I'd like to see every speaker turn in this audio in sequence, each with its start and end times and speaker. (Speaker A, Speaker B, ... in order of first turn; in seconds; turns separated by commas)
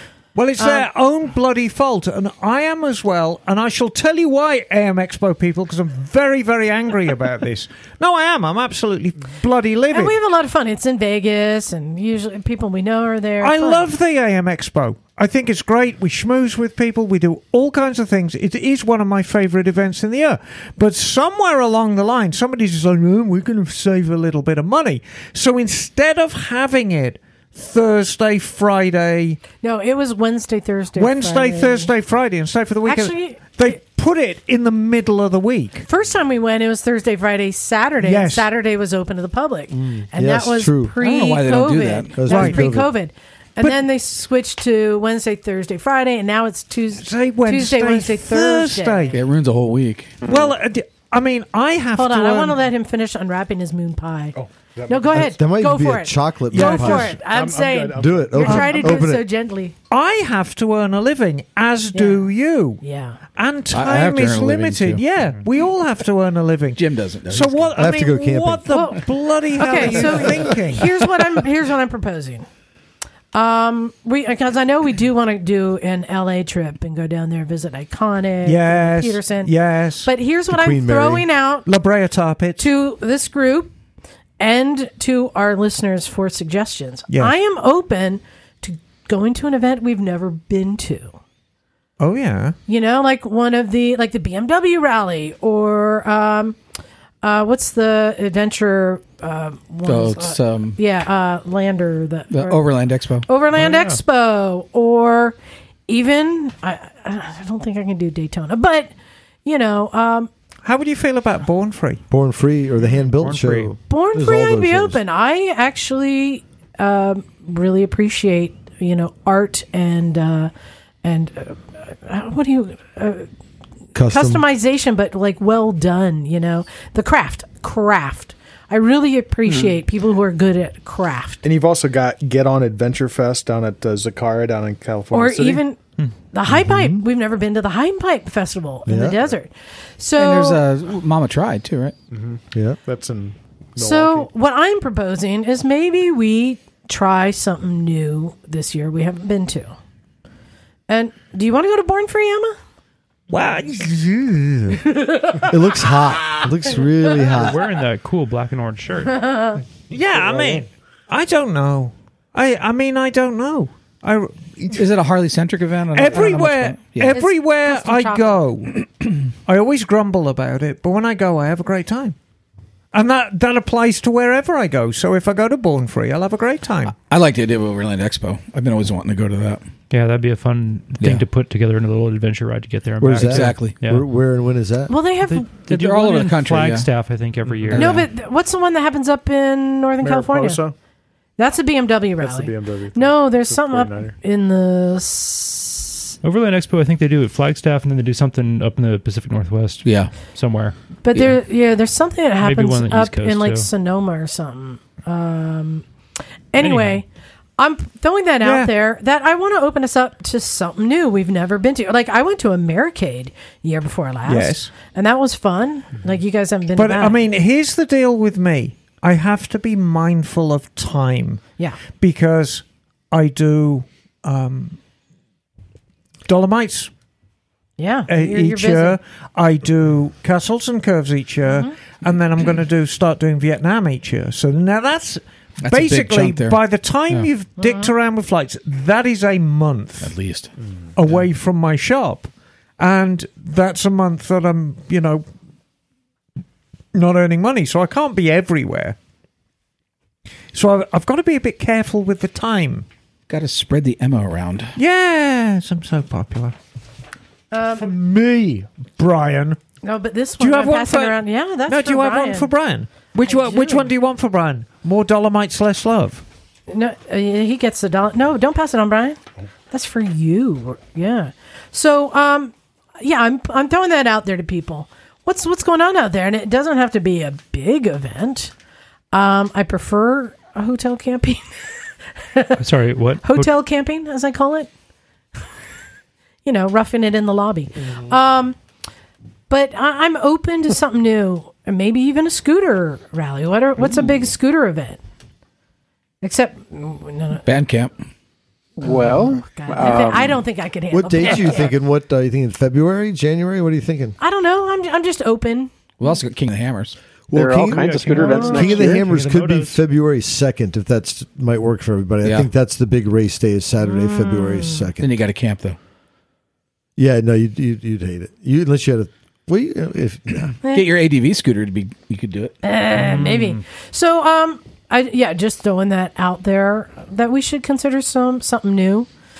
Speaker A: 0.3-10.1, Speaker B: 0.6-0.9, Speaker B: 9.9-13.9, Speaker A: 13.4-29.4, Speaker B: 29.6-31.9, Speaker A: 30.9-35.9, Speaker B: 32.9-33.8, Speaker B: 35.9-49.2, Speaker A: 38.0-38.5, Speaker C: 39.7-40.9, Speaker D: 41.0-42.2, Speaker C: 42.1-42.9, Speaker A: 42.3-42.6, Speaker A: 47.0-49.2, Speaker D: 49.1-50.2, Speaker A: 50.2-52.6, Speaker B: 52.0-54.4, Speaker E: 54.3-55.3, Speaker B: 54.9-59.7, Speaker C: 55.1-57.1, Speaker A: 56.5-57.1, Speaker E: 57.1-58.6, Speaker C: 58.0-59.2, Speaker A: 58.5-58.8, Speaker A: 59.9-62.8, Speaker B: 61.9-62.3, Speaker B: 62.8-63.2, Speaker A: 63.4-71.0, Speaker D: 63.7-65.0, Speaker D: 66.8-67.8, Speaker C: 67.8-68.6, Speaker B: 68.7-69.0, Speaker B: 69.6-72.5, Speaker B: 73.3-79.5, Speaker A: 78.4-80.1, Speaker B: 80.0-81.7, Speaker C: 80.5-81.3, Speaker A: 81.7-82.7, Speaker B: 82.6-83.7, Speaker B: 84.4-91.2, Speaker A: 87.1-87.3, Speaker A: 92.0-92.5, Speaker B: 92.7-96.6, Speaker B: 97.2-102.7, Speaker D: 99.8-100.8, Speaker D: 102.3-103.3, Speaker B: 103.2-105.4, Speaker F: 103.5-104.0, Speaker B: 105.9-108.9, Speaker B: 109.4-110.3, Speaker A: 110.6-112.0, Speaker C: 112.1-115.0, Speaker F: 113.1-113.8, Speaker B: 113.9-120.5, Speaker B: 121.0-123.3, Speaker C: 123.9-124.4, Speaker B: 124.0-131.4, Speaker E: 131.4-135.6, Speaker B: 135.1-135.8, Speaker B: 136.3-140.6, Speaker C: 138.9-139.2, Speaker D: 140.2-141.9, Speaker E: 142.1-144.3, Speaker C: 142.5-142.8, Speaker B: 143.8-149.7, Speaker B: 150.9-152.6, Speaker A: 153.3-154.8, Speaker B: 154.9-155.4, Speaker C: 155.5-157.6, Speaker F: 157.3-159.2, Speaker B: 159.1-159.6, Speaker A: 159.9-164.8, Speaker D: 164.7-167.1, Speaker A: 165.9-168.8, Speaker B: 167.1-168.4, Speaker A: 169.4-172.2, Speaker A: 172.9-176.9, Speaker D: 176.9-179.6, Speaker F: 179.9-184.0, Speaker D: 181.0-181.3, Speaker C: 183.0-184.9, Speaker D: 183.1-183.8, Speaker B: 184.9-185.5, Speaker F: 185.2-188.1, Speaker D: 185.7-186.9, Speaker D: 187.5-188.0, Speaker B: 187.7-190.6, Speaker E: 190.0-190.7, Speaker B: 191.4-196.1, Speaker E: 192.2-194.2, Speaker F: 196.2-200.7, Speaker D: 199.8-200.1, Speaker B: 201.0-205.8, Speaker F: 202.4-203.7, Speaker B: 206.5-207.0, Speaker F: 206.6-207.0, Speaker B: 207.6-217.2, Speaker A: 208.4-208.7, Speaker A: 214.2-214.7, Speaker A: 216.8-221.4, Speaker A: 221.9-224.8, Speaker A: 226.2-226.9, Speaker B: 227.8-229.0, Speaker A: 228.1-240.2, Speaker B: 231.5-231.7, Speaker D: 235.6-237.3, Speaker B: 237.6-237.9, Speaker D: 240.0-240.5, Speaker A: 240.9-245.2, Speaker A: 246.9-248.9, Speaker A: 250.5-252.8, Speaker D: 253.3-254.7, Speaker A: 254.8-256.5, Speaker B: 257.5-257.9, Speaker A: 257.8-259.6, Speaker B: 259.8-262.5, Speaker A: 260.4-266.2, Speaker B: 263.2-263.9, Speaker B: 266.7-269.2, Speaker B: 269.7-278.5, Speaker B: 279.1-281.5, Speaker B: 282.3-282.6, Speaker F: 282.6-283.5, Speaker B: 283.2-284.7, Speaker B: 286.4-288.6, Speaker B: 289.5-295.0, Speaker B: 296.2-297.4, Speaker D: 297.4-297.9, Speaker G: 298.8-300.4, Speaker B: 299.4-301.7, Speaker C: 300.9-304.2, Speaker B: 304.2-305.7, Speaker D: 306.0-306.9, Speaker C: 307.3-315.1, Speaker G: 307.3-309.1, Speaker F: 307.7-309.8, Speaker B: 308.2-308.7, Speaker D: 312.2-312.5, Speaker B: 313.8-314.9, Speaker D: 315.0-315.8, Speaker C: 317.0-320.5, Speaker D: 320.6-322.6, Speaker B: 322.6-329.1, Speaker F: 323.0-323.6